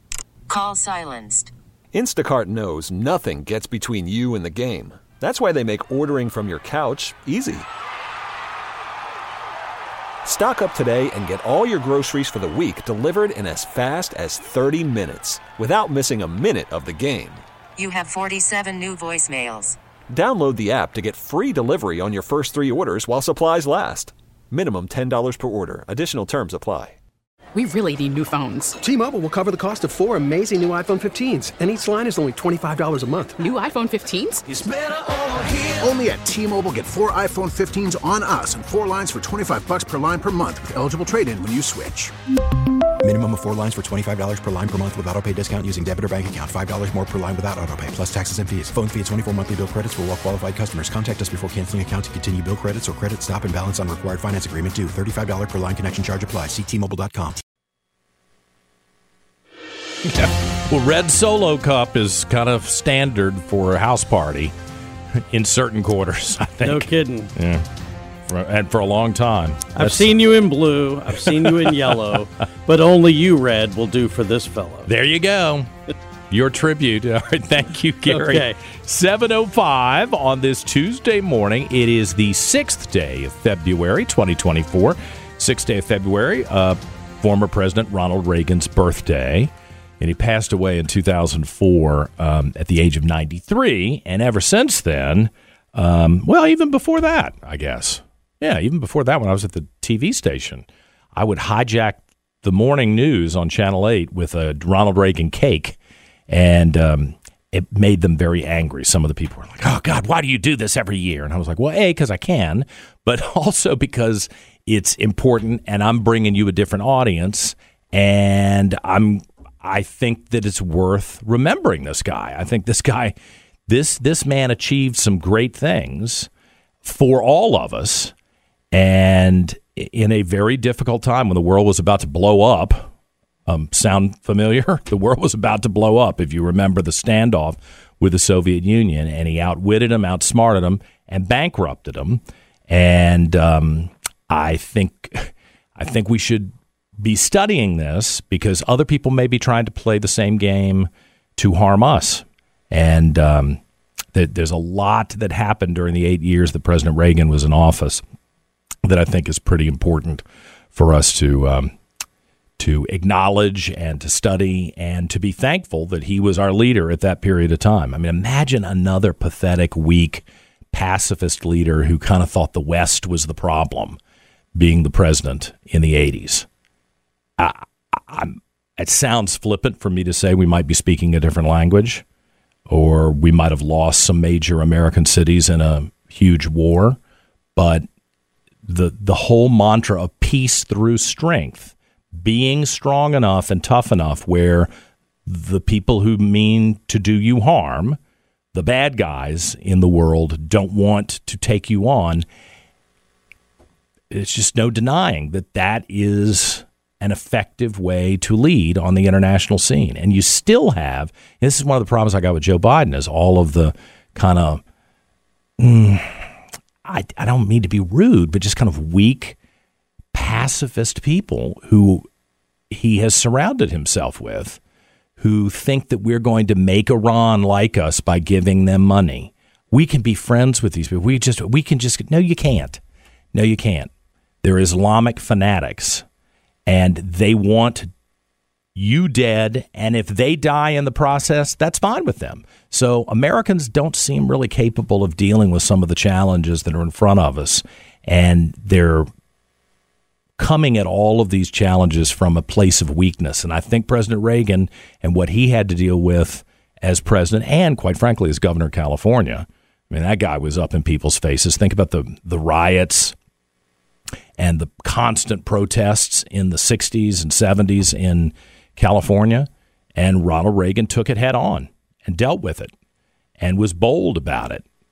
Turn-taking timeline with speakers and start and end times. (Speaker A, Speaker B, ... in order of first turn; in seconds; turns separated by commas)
Speaker A: 0.5-1.5, Speaker B: 1.9-7.7, Speaker B: 10.2-17.4, Speaker A: 17.8-19.8, Speaker B: 20.1-27.0, Speaker C: 27.5-28.8, Speaker D: 28.8-33.4, Speaker C: 33.4-34.4, Speaker B: 34.5-35.8, Speaker E: 35.8-42.1, Speaker F: 43.0-57.4, Speaker G: 60.0-64.5, Speaker G: 65.3-67.6, Speaker H: 66.6-67.3, Speaker G: 68.3-70.2, Speaker H: 69.7-74.9, Speaker G: 71.1-72.1, Speaker G: 74.9-75.7, Speaker G: 76.3-105.8, Speaker H: 78.1-78.6, Speaker G: 106.3-123.1, Speaker G: 123.7-126.3, Speaker G: 126.8-128.1, Speaker G: 128.7-132.9, Speaker G: 133.4-153.6, Speaker G: 154.1-158.0, Speaker G: 158.8-161.7, Speaker G: 162.6-174.0, Speaker G: 174.6-176.5, Speaker G: 177.4-182.0, Speaker G: 182.7-187.0, Speaker G: 187.6-187.8, Speaker G: 188.7-194.7, Speaker G: 195.2-198.0, Speaker G: 198.5-202.2, Speaker G: 204.1-214.6, Speaker G: 215.6-216.3, Speaker G: 216.8-219.3, Speaker G: 220.1-222.1, Speaker G: 222.7-224.6, Speaker G: 225.2-232.8, Speaker G: 233.3-233.9, Speaker G: 234.4-236.0, Speaker G: 236.7-237.9, Speaker G: 238.7-249.1, Speaker G: 250.4-263.1, Speaker G: 264.4-272.7, Speaker G: 273.4-274.6